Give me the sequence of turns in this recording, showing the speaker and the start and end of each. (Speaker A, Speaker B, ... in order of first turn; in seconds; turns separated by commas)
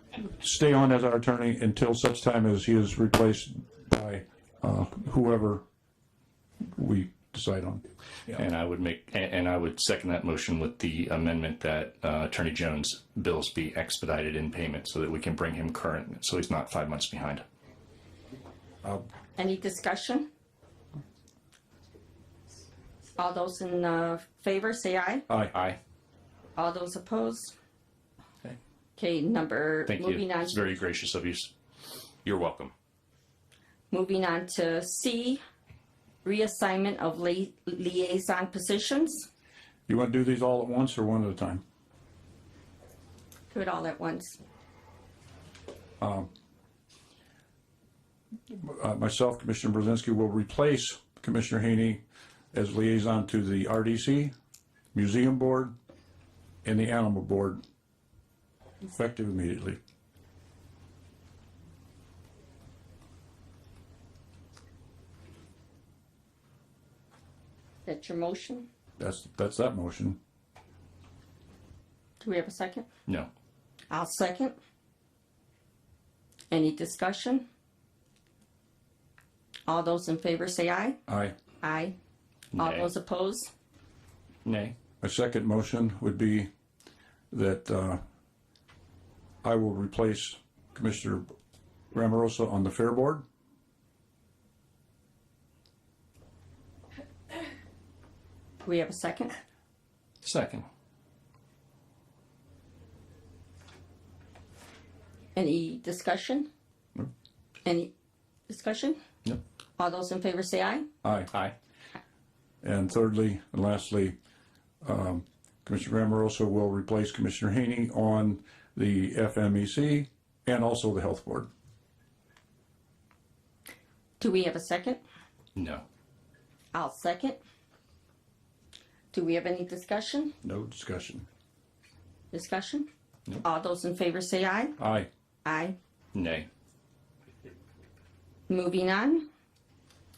Speaker A: 0.2-5.6, Speaker A: 6.8-7.8, Speaker B: 8.3-17.4, Speaker C: 19.4-20.3, Speaker C: 23.2-25.3, Speaker B: 25.5-25.8, Speaker C: 26.6-27.5, Speaker C: 29.0-30.7, Speaker B: 29.9-31.5, Speaker B: 32.2-32.7, Speaker C: 33.9-35.4, Speaker C: 36.2-39.3, Speaker A: 39.9-41.6, Speaker C: 43.5-44.4, Speaker A: 46.0-46.3, Speaker A: 48.5-52.0, Speaker A: 52.5-54.3, Speaker A: 54.9-55.7, Speaker A: 56.6-57.6, Speaker A: 58.8-59.8, Speaker C: 67.9-68.7, Speaker A: 69.0-70.2, Speaker C: 72.2-72.9, Speaker C: 73.9-74.5, Speaker C: 76.5-77.5, Speaker C: 79.7-81.0, Speaker A: 81.1-81.3, Speaker C: 81.6-82.0, Speaker B: 82.5-82.9, Speaker C: 82.6-83.5, Speaker B: 84.5-84.7, Speaker A: 85.0-86.5, Speaker A: 87.3-88.0, Speaker A: 89.4-91.3, Speaker A: 91.9-93.2, Speaker C: 98.7-99.4, Speaker B: 100.2-100.7, Speaker C: 105.4-106.5, Speaker C: 107.7-107.9, Speaker C: 108.5-109.0, Speaker C: 109.8-110.9, Speaker A: 111.0-111.3, Speaker A: 112.6-114.2, Speaker A: 114.8-121.5, Speaker C: 124.2-125.0, Speaker B: 125.6-125.8, Speaker C: 126.7-127.4, Speaker C: 129.1-130.4, Speaker A: 130.4-131.3, Speaker C: 132.3-132.9, Speaker C: 133.4-134.8, Speaker A: 134.8-135.1, Speaker C: 135.4-135.8, Speaker B: 136.1-136.5, Speaker C: 138.5-139.3